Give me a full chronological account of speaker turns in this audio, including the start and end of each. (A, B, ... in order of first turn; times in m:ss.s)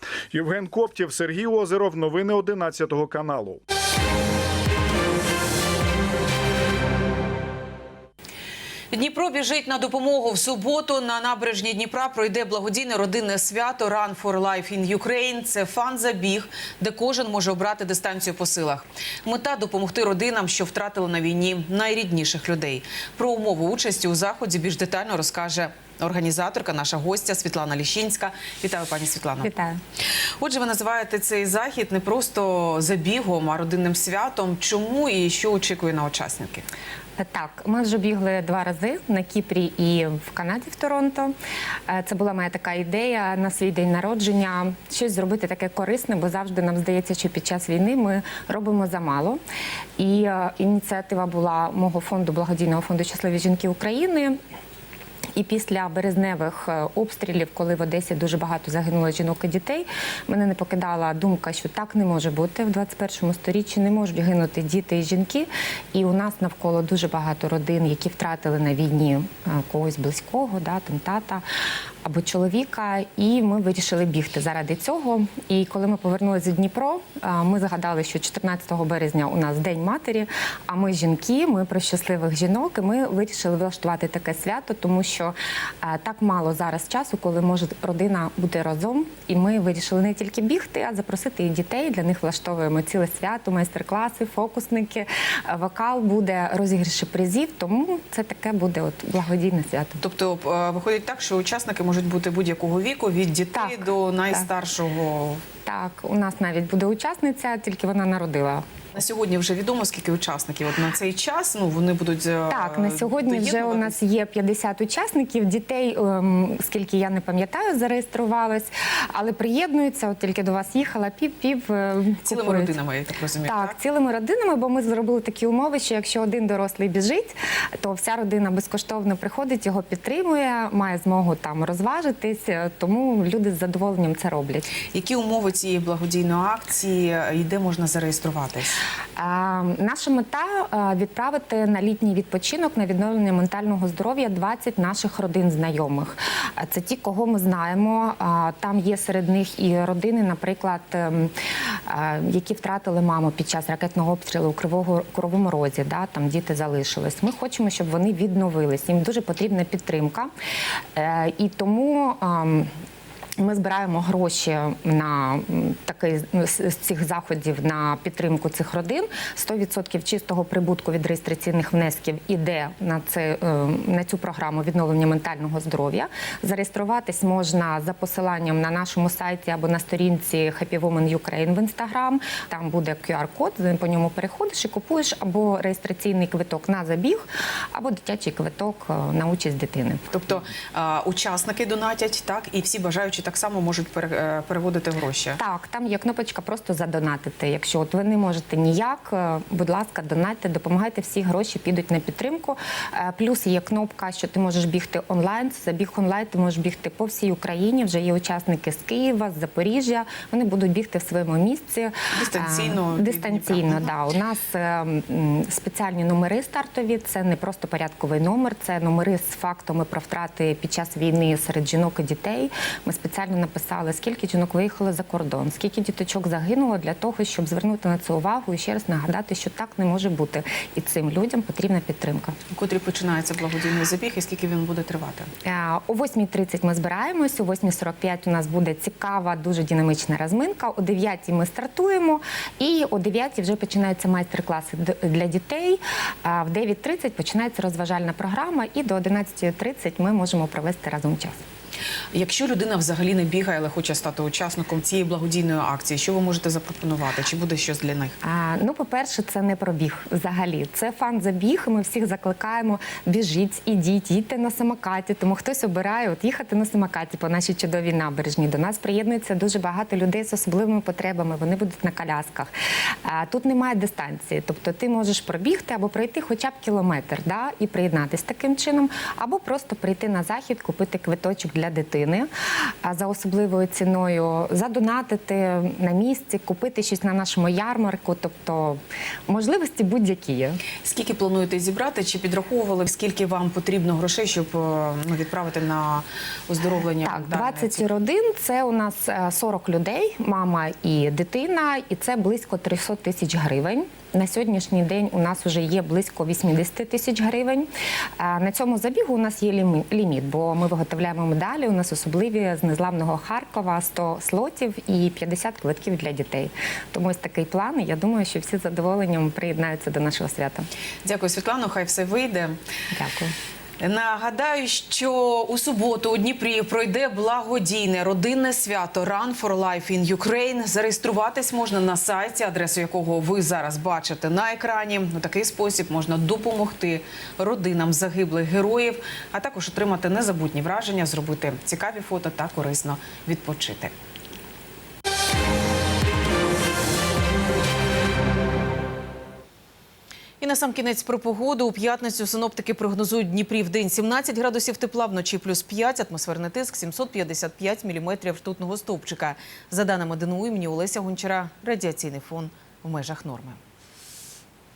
0:00.3-0:03.6 A
0:08.9-0:29.5 B
0:29.4-0:29.8 C
0:30.4-0:36.7 B
0:37.2-0:41.3 C
0:41.9-0:49.4 C
0:50.0-0:54.4 C
0:55.4-1:11.4 C
1:12.0-1:40.0 C
1:40.0-1:45.4 B
1:43.5-1:44.4 C
1:45.6-1:48.7 C
1:48.9-1:54.0 B
1:52.5-2:02.7 C
2:02.2-2:03.8 B
2:03.5-2:14.7 C
2:14.9-2:18.8 B
2:19.2-2:40.3 C
2:41.0-2:42.7 C
2:43.4-3:10.0 C
3:10.1-3:15.4 B
3:15.4-3:52.4 C
3:32.1-3:33.9 B
3:52.5-3:55.3 B
3:55.4-4:11.4 C
4:12.1-4:18.2 B
4:18.2-4:32.5 C
4:33.0-4:42.3 C
4:42.8-4:50.6 C
4:50.8-4:57.8 B
4:57.1-5:20.7 C
5:21.0-5:22.6 B
5:22.9-5:23.3 C
5:23.8-5:43.9 B
5:50.4-6:03.6 B